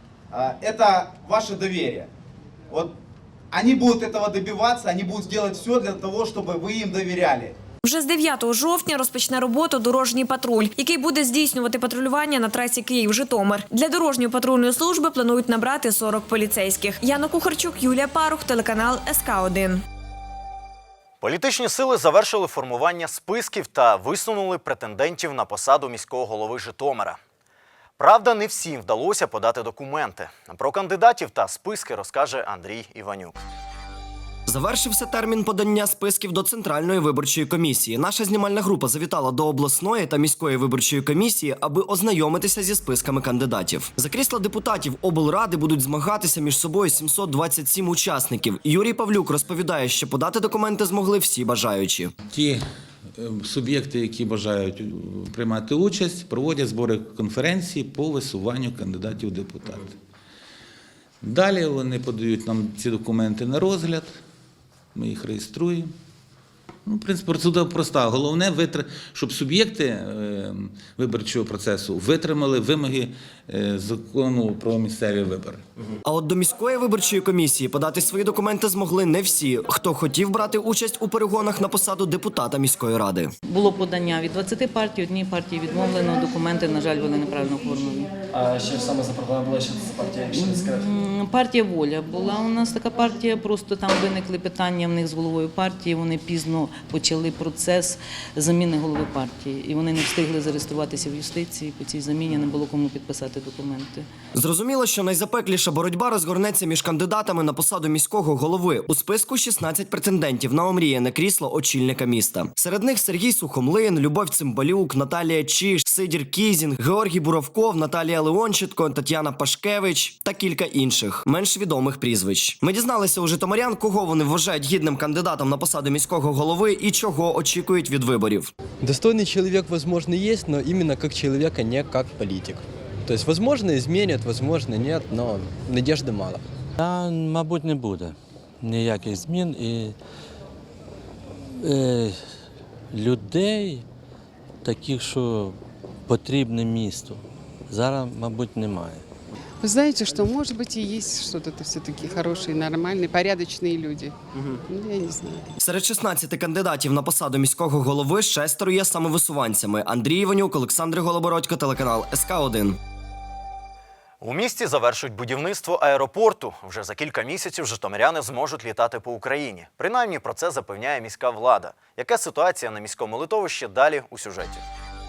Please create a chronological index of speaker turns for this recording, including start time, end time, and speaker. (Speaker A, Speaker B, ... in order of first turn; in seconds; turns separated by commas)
Speaker A: 0.3-2.1, Speaker A: 3.5-7.5, Speaker B: 7.8-19.8, Speaker C: 21.2-27.2, Speaker C: 28.0-33.4, Speaker D: 34.5-52.1, Speaker E: 52.3-52.6, Speaker E: 53.1-59.9, Speaker E: 61.2-64.2, Speaker E: 65.0-65.9, Speaker E: 66.9-75.6, Speaker D: 76.0-83.3, Speaker F: 83.5-88.1, Speaker F: 90.3-104.1, Speaker D: 104.3-128.5, Speaker G: 128.8-136.4, Speaker H: 136.8-139.9, Speaker H: 141.6-142.2, Speaker H: 142.9-143.8, Speaker H: 144.7-149.1, Speaker I: 149.6-154.2, Speaker I: 154.7-155.5, Speaker D: 155.6-162.8, Speaker C: 164.2-174.6